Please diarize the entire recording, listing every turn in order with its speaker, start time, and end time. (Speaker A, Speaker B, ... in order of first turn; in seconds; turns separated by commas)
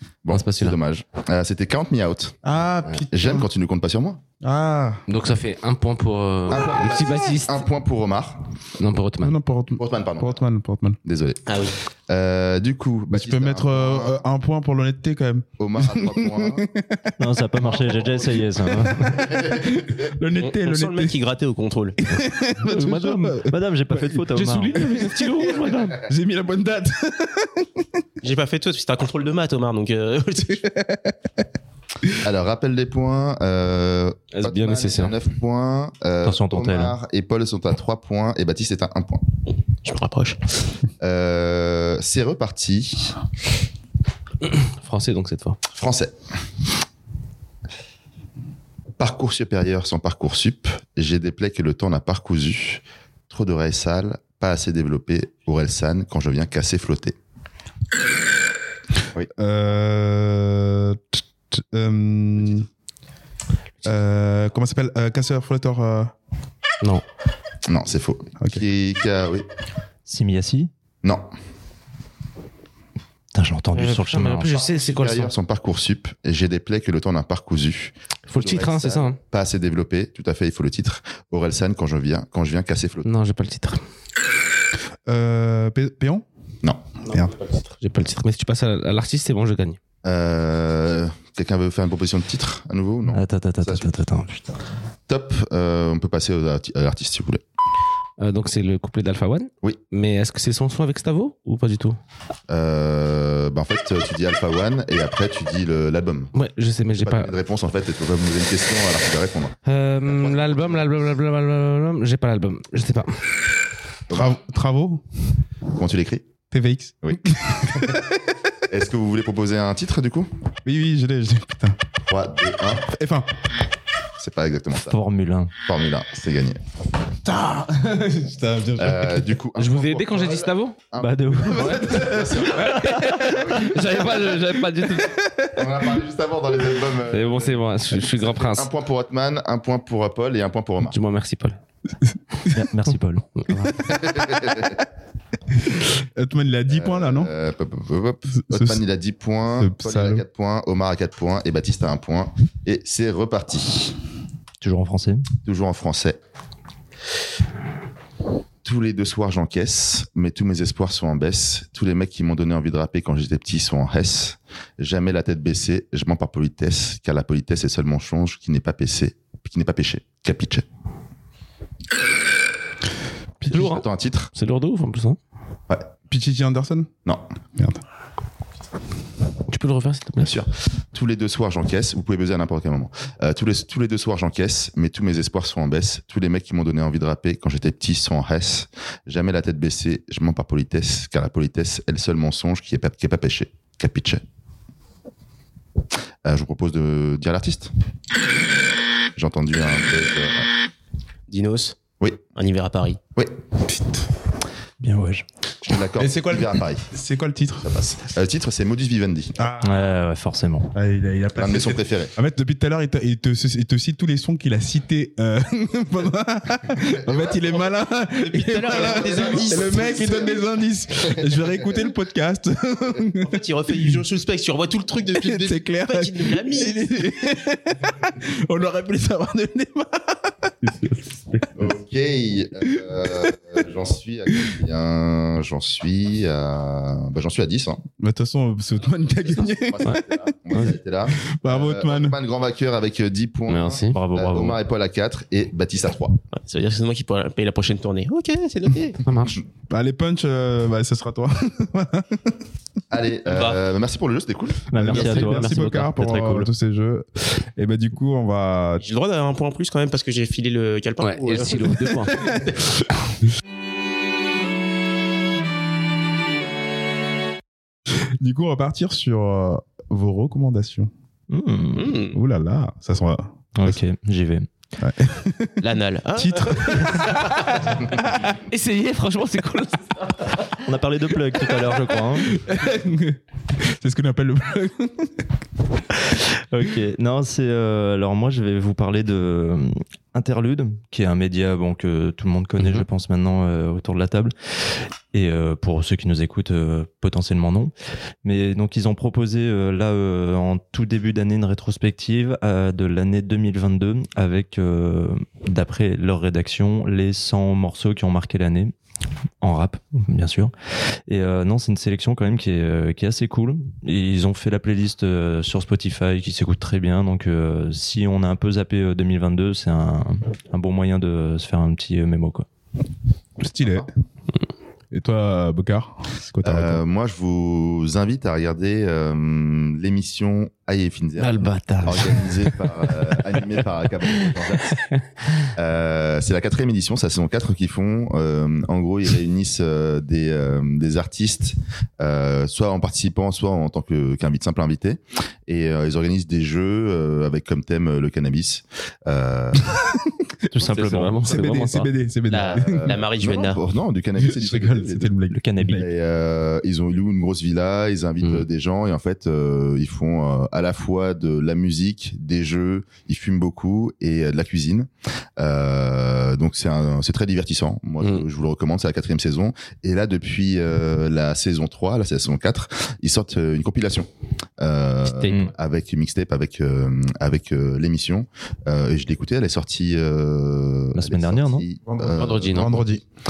Speaker A: 0.2-2.4, Speaker B: 0.3-0.8, Speaker C: 2.4-3.5, Speaker A: 3.1-4.2, Speaker C: 4.4-5.0, Speaker B: 5.1-7.7, Speaker A: 6.5-8.4, Speaker B: 8.8-9.4, Speaker C: 9.2-11.0, Speaker A: 9.8-10.4, Speaker A: 11.0-14.2, Speaker D: 11.5-11.7, Speaker C: 13.1-21.1, Speaker A: 15.6-16.6, Speaker E: 17.2-19.3, Speaker D: 20.3-22.0, Speaker C: 22.0-28.0, Speaker B: 22.6-23.4, Speaker E: 22.8-24.8, Speaker B: 24.7-25.9, Speaker D: 25.4-25.9, Speaker D: 28.2-30.6, Speaker C: 30.4-31.4, Speaker A: 32.2-39.2, Speaker B: 34.3-35.1, Speaker E: 36.2-37.0, Speaker D: 39.7-40.5, Speaker A: 41.0-43.1, Speaker B: 44.4-45.6, Speaker A: 45.7-46.2, Speaker A: 49.0-57.1, Speaker C: 59.3-62.7, Speaker C: 63.8-66.1, Speaker A: 67.7-69.5, Speaker E: 70.0-70.7, Speaker A: 71.0-71.3, Speaker E: 73.3-74.6, Speaker B: 73.7-75.3, Speaker A: 74.5-83.1, Speaker B: 78.3-79.2, Speaker B: 83.0-83.8, Speaker C: 85.0-86.2, Speaker C: 87.1-87.3, Speaker B: 87.1-89.8, Speaker A: 90.0-93.9, Speaker E: 93.1-94.5, Speaker A: 95.1-97.4, Speaker B: 98.2-102.0, Speaker A: 102.5-106.3, Speaker B: 106.3-107.3, Speaker A: 106.9-110.8, Speaker B: 109.6-113.4, Speaker A: 114.1-114.3, Speaker C: 114.1-115.0, Speaker A: 115.7-116.3, Speaker C: 116.5-118.5, Speaker A: 117.0-118.0, Speaker A: 118.7-120.3, Speaker C: 120.6-121.8, Speaker A: 122.1-122.9, Speaker C: 122.9-123.3, Speaker A: 124.2-125.0, Speaker E: 124.9-125.5, Speaker A: 125.6-126.6, Speaker C: 127.2-129.4, Speaker A: 128.8-134.3, Speaker B: 129.6-130.8, Speaker E: 131.0-132.1, Speaker C: 131.4-133.4, Speaker B: 132.6-135.2, Speaker C: 134.3-135.7, Speaker A: 135.5-140.9, Speaker B: 137.1-138.7, Speaker B: 140.8-141.6, Speaker E: 142.4-143.3, Speaker B: 143.4-143.7, Speaker C: 143.5-144.6, Speaker A: 143.8-144.8, Speaker C: 145.5-147.3, Speaker A: 146.7-153.9, Speaker C: 148.4-148.8, Speaker C: 149.4-150.2, Speaker E: 154.6-155.3, Speaker A: 155.4-156.2, Speaker A: 158.6-170.6, Speaker B: 173.4-175.2, Speaker A: 173.4-174.3, Speaker C: 176.1-176.9, Speaker C: 177.6-177.8, Speaker B: 179.5-180.3, Speaker A: 180.2-194.2, Speaker A: 196.2-197.7, Speaker A: 199.2-200.5, Speaker D: 201.3-201.8, Speaker D: 202.3-203.0, Speaker E: 204.8-205.2, Speaker A: 205.7-206.9, Speaker C: 206.0-207.7, Speaker A: 207.6-209.3, Speaker C: 209.3-209.8, Speaker E: 209.6-210.7, Speaker C: 210.7-224.0, Speaker A: 211.4-212.1, Speaker D: 218.2-220.1, Speaker A: 218.7-220.4, Speaker A: 221.1-221.5, Speaker D: 223.2-226.8, Speaker C: 225.2-230.3, Speaker B: 230.6-231.5, Speaker A: 231.6-237.8, Speaker C: 238.0-242.2, Speaker A: 239.2-246.2, Speaker B: 243.5-243.9, Speaker E: 243.9-244.6, Speaker D: 246.3-249.0, Speaker B: 249.0-249.4, Speaker C: 249.7-252.4, Speaker A: 252.9-254.8, Speaker D: 253.2-253.6, Speaker E: 254.7-256.5, Speaker C: 254.8-258.8, Speaker B: 254.9-255.7, Speaker D: 258.8-261.9, Speaker B: 261.0-262.6, Speaker C: 261.9-262.6, Speaker C: 268.0-270.9, Speaker E: 271.3-272.0, Speaker D: 271.7-272.2, Speaker C: 272.1-273.8, Speaker E: 273.5-274.5, Speaker C: 274.8-278.3, Speaker D: 275.6-277.0, Speaker B: 276.9-277.4, Speaker B: 278.4-280.5, Speaker E: 280.6-282.4, Speaker C: 282.3-285.3, Speaker E: 286.5-294.3, Speaker E: 295.1-297.7, Speaker E: 298.2-308.7, Speaker E: 309.4-310.5, Speaker E: 311.1-322.5, Speaker C: 323.4-323.9, Speaker C: 324.9-326.8, Speaker A: 326.4-334.8, Speaker B: 331.2-333.4, Speaker B: 334.3-335.5, Speaker A: 335.5-349.7, Speaker C: 349.6-353.0, Speaker E: 350.5-351.5, Speaker B: 350.6-351.9, Speaker D: 352.3-353.6, Speaker A: 352.4-355.1, Speaker C: 354.2-355.9, Speaker E: 355.3-355.9, Speaker A: 355.7-374.1, Speaker B: 358.2-358.4, Speaker B: 368.0-368.2, Speaker A: 374.6-382.8, Speaker B: 375.0-375.5, Speaker E: 380.9-381.6, Speaker C: 381.9-383.0, Speaker B: 382.1-382.9